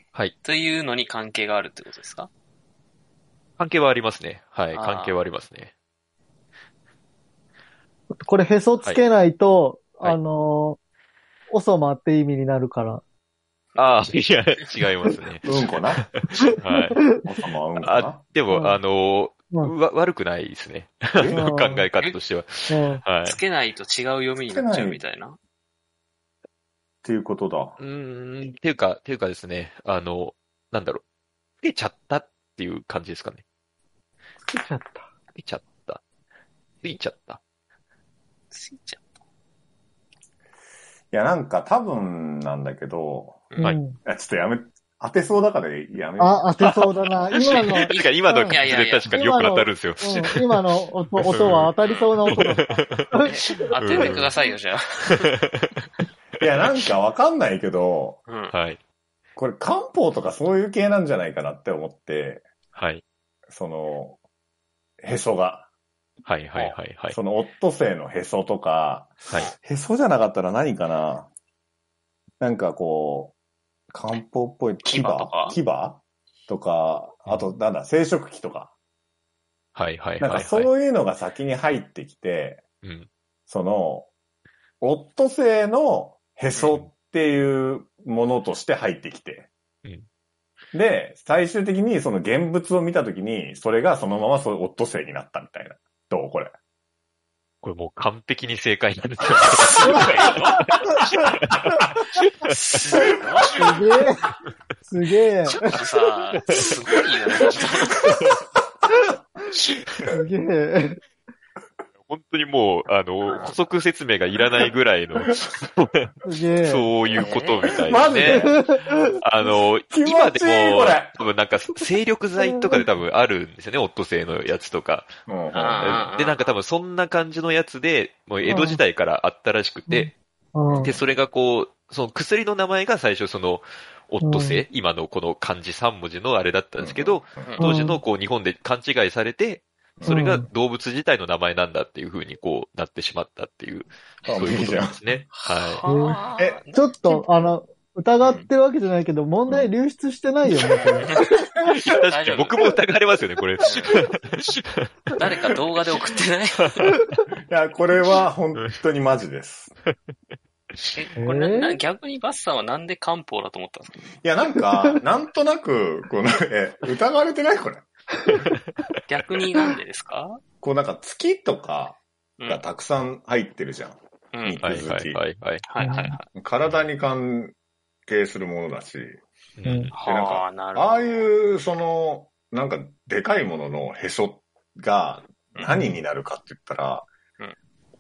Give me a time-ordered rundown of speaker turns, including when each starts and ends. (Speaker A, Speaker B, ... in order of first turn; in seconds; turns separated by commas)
Speaker A: 0.4-2.3, Speaker B: 3.6-5.7, Speaker A: 4.7-5.2, Speaker C: 8.2-10.8, Speaker C: 11.5-13.0, Speaker B: 13.8-15.5, Speaker D: 15.4-16.1, Speaker B: 16.1-17.0, Speaker C: 16.9-17.2, Speaker D: 17.2-18.2, Speaker B: 17.8-23.4, Speaker C: 18.5-18.8, Speaker D: 21.1-21.5, Speaker C: 21.3-21.9, Speaker C: 22.7-23.0, Speaker A: 23.2-25.4, Speaker D: 24.5-25.0, Speaker D: 27.0-27.8, Speaker B: 27.8-31.0, Speaker B: 31.6-33.4, Speaker C: 34.5-35.0, Speaker B: 35.4-36.0, Speaker B: 36.8-37.4, Speaker A: 38.5-39.0, Speaker D: 41.1-43.5, Speaker C: 43.6-44.0, Speaker D: 44.0-46.6, Speaker C: 46.2-54.2, Speaker B: 46.6-50.6, Speaker A: 47.5-49.2, Speaker B: 51.2-54.3, Speaker A: 51.8-52.3, Speaker A: 53.2-55.3, Speaker B: 55.2-55.9, Speaker D: 56.4-58.2, Speaker A: 58.3-58.5, Speaker B: 58.5-58.8, Speaker D: 59.4-62.4, Speaker B: 62.8-63.0, Speaker D: 63.5-64.2, Speaker D: 65.0-65.7, Speaker B: 66.3-67.2, Speaker D: 67.1-71.3, Speaker D: 72.4-73.3, Speaker D: 73.9-78.7, Speaker A: 74.8-75.6, Speaker B: 79.8-80.7, Speaker D: 80.2-82.6, Speaker B: 82.8-83.1, Speaker D: 83.5-84.1, Speaker D: 84.8-89.5, Speaker D: 90.7-96.5, Speaker B: 97.6-102.8, Speaker A: 99.4-100.8, Speaker A: 102.5-103.8, Speaker C: 103.5-104.3, Speaker C: 104.9-105.7, Speaker A: 105.5-108.3, Speaker D: 107.4-108.2, Speaker B: 108.0-108.4, Speaker B: 109.6-110.1, Speaker C: 110.1-111.0, Speaker B: 112.1-118.5, Speaker C: 116.2-116.9, Speaker A: 117.1-117.7, Speaker D: 117.6-118.6, Speaker C: 118.3-119.2, Speaker B: 119.2-125.2, Speaker D: 119.9-121.2, Speaker D: 125.3-126.1, Speaker A: 125.5-126.5, Speaker B: 125.8-130.1, Speaker C: 128.5-128.8, Speaker C: 129.9-130.9, Speaker D: 130.7-131.0, Speaker B: 130.8-145.8, Speaker C: 134.2-134.6, Speaker D: 136.8-137.6, Speaker C: 137.6-138.0, Speaker D: 140.0-140.3, Speaker C: 140.1-140.5, Speaker D: 144.3-145.0, Speaker A: 145.4-147.2, Speaker C: 145.9-146.2, Speaker C: 146.7-151.3, Speaker A: 148.2-148.5, Speaker D: 150.8-151.1, Speaker B: 151.7-154.9, Speaker A: 152.1-152.7, Speaker A: 153.6-154.0, Speaker A: 155.2-157.0, Speaker D: 157.5-159.7, Speaker A: 160.9-164.0, Speaker C: 161.2-161.8, Speaker D: 164.2-167.8, Speaker B: 168.3-169.0, Speaker A: 169.1-170.4, Speaker D: 170.6-175.2, Speaker A: 174.3-174.6, Speaker B: 174.6-175.6, Speaker A: 175.7-176.3, Speaker C: 175.8-176.2, Speaker D: 176.3-177.6, Speaker D: 178.1-179.2, Speaker B: 179.6-179.9, Speaker C: 179.7-179.9, Speaker A: 179.9-181.3, Speaker D: 179.9-187.1, Speaker A: 185.5-185.8, Speaker C: 185.7-186.0